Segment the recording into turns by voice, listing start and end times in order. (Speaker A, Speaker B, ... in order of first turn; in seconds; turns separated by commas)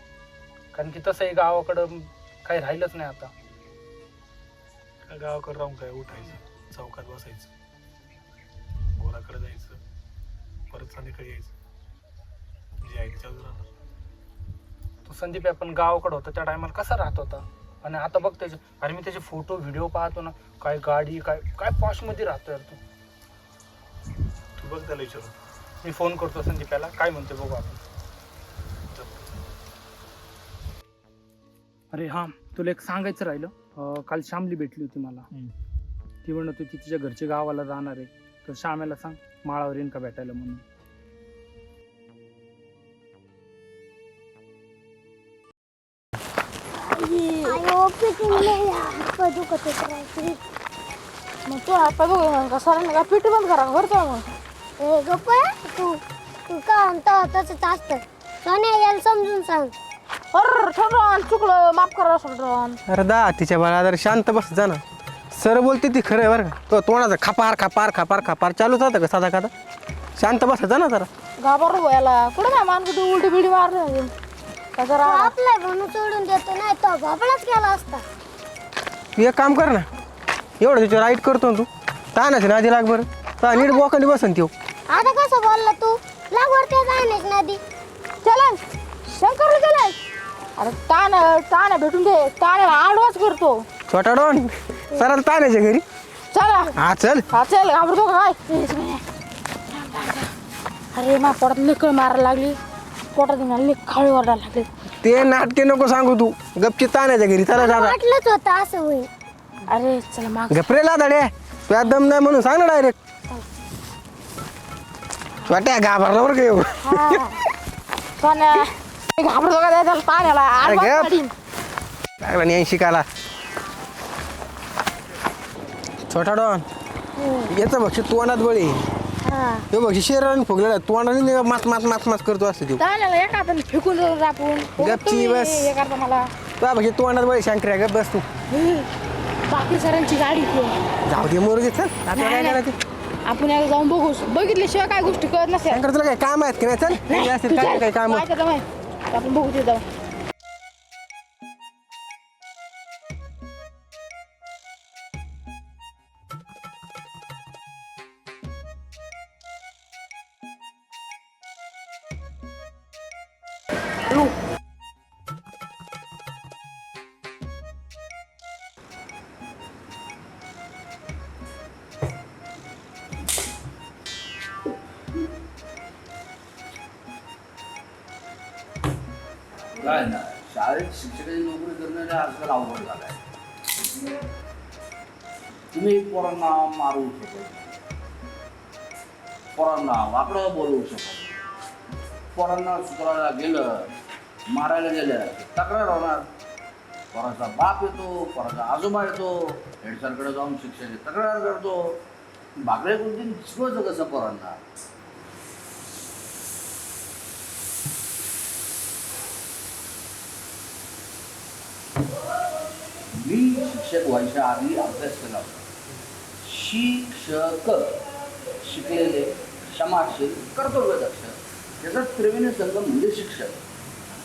Speaker A: 0.7-3.3, Speaker B: 5.1-7.5, Speaker B: 8.9-9.8, Speaker B: 10.7-11.5, Speaker B: 12.8-13.7, Speaker A: 15.1-22.8, Speaker B: 24.6-25.3, Speaker A: 25.8-27.8, Speaker B: 28.9-29.3, Speaker A: 31.9-35.2, Speaker A: 36.2-40.6, Speaker C: 47.0-47.6, Speaker D: 47.4-50.4, Speaker C: 51.5-54.3, Speaker D: 54.8-59.7, Speaker C: 60.3-62.8, Speaker E: 62.9-64.8, Speaker E: 65.3-69.5, Speaker E: 70.2-71.1, Speaker C: 71.4-74.1, Speaker C: 74.8-75.3, Speaker D: 75.0-78.0, Speaker E: 79.2-79.9, Speaker E: 80.6-84.5, Speaker D: 83.5-83.8, Speaker D: 84.9-87.6, Speaker C: 88.2-90.0, Speaker C: 90.6-93.6, Speaker E: 93.9-95.8, Speaker C: 96.3-96.7, Speaker E: 96.8-97.2, Speaker C: 97.3-99.0, Speaker C: 99.7-100.3, Speaker C: 100.9-102.6, Speaker C: 103.1-104.7, Speaker E: 105.0-108.0, Speaker D: 107.5-109.1, Speaker C: 109.7-110.6, Speaker E: 110.5-112.9, Speaker E: 115.5-117.2, Speaker C: 116.8-117.3, Speaker C: 118.2-121.3, Speaker E: 120.6-121.1, Speaker E: 122.2-123.0, Speaker E: 126.1-126.6, Speaker C: 127.2-127.5, Speaker E: 127.5-128.8, Speaker C: 129.2-129.6, Speaker E: 129.7-132.8, Speaker C: 132.8-136.3, Speaker E: 134.8-135.7, Speaker E: 136.6-138.2, Speaker C: 138.5-138.9, Speaker C: 139.5-140.7, Speaker E: 141.1-142.8, Speaker C: 142.1-142.6, Speaker C: 143.2-145.8, Speaker E: 145.7-148.2, Speaker C: 146.9-149.8, Speaker F: 179.8-183.2, Speaker F: 185.7-187.7, Speaker F: 189.6-191.4, Speaker F: 192.3-193.8, Speaker F: 194.5-196.2, Speaker F: 197.1-201.8, Speaker F: 202.7-204.6, Speaker F: 213.2-215.6, Speaker F: 216.4-217.9, Speaker F: 218.6-223.6